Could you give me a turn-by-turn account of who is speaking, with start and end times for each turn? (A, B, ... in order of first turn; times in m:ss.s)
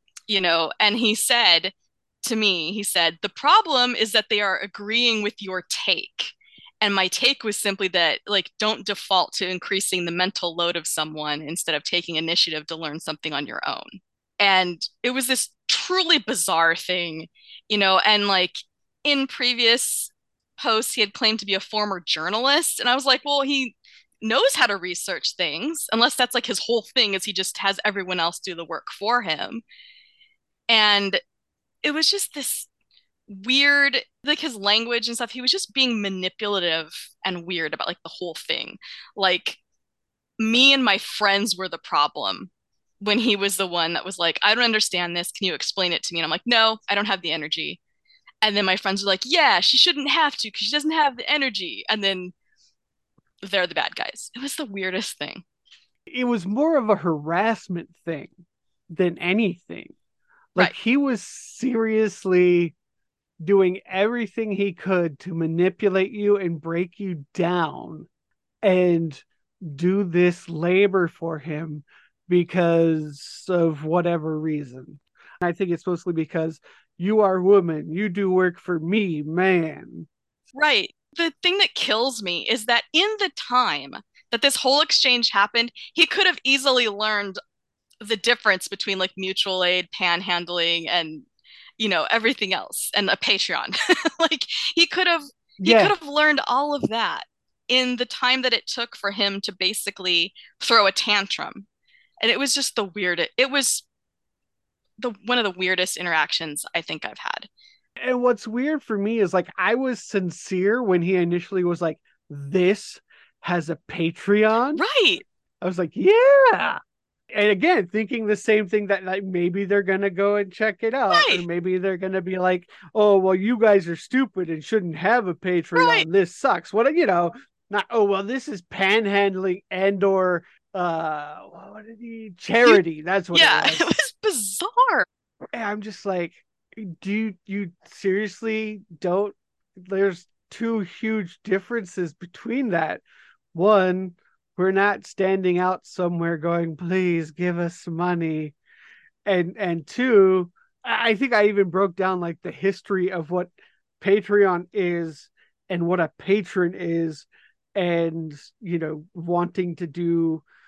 0:00.3-0:29.6 A
0:30.7-0:31.2 A
0:31.8-0:32.7 A
0:33.3-0:39.6 A
0:40.4-0:42.5 A
0:43.0-0:47.8 A
0:48.4-0:52.3 A
0:53.4-0:55.4 A
0:56.1-0:58.3 B
0:58.9-0:59.9 B
1:00.5-1:02.7 B
1:03.4-1:08.1 B
1:08.6-1:20.1 B
1:20.5-1:27.4 A
1:28.0-1:31.2 A
1:31.8-1:41.6 A
1:35.6-1:35.9 B
1:42.2-1:43.8 A
1:45.0-1:47.5 A
1:48.0-1:54.8 B
1:54.8-1:55.2 A
1:55.6-1:56.8 B
1:57.3-2:13.9 B
2:01.1-2:01.4 A
2:05.8-2:06.0 A
2:13.3-2:15.1 A
2:15.5-2:23.0 B
2:23.5-2:28.5 B
2:29.2-2:40.4 B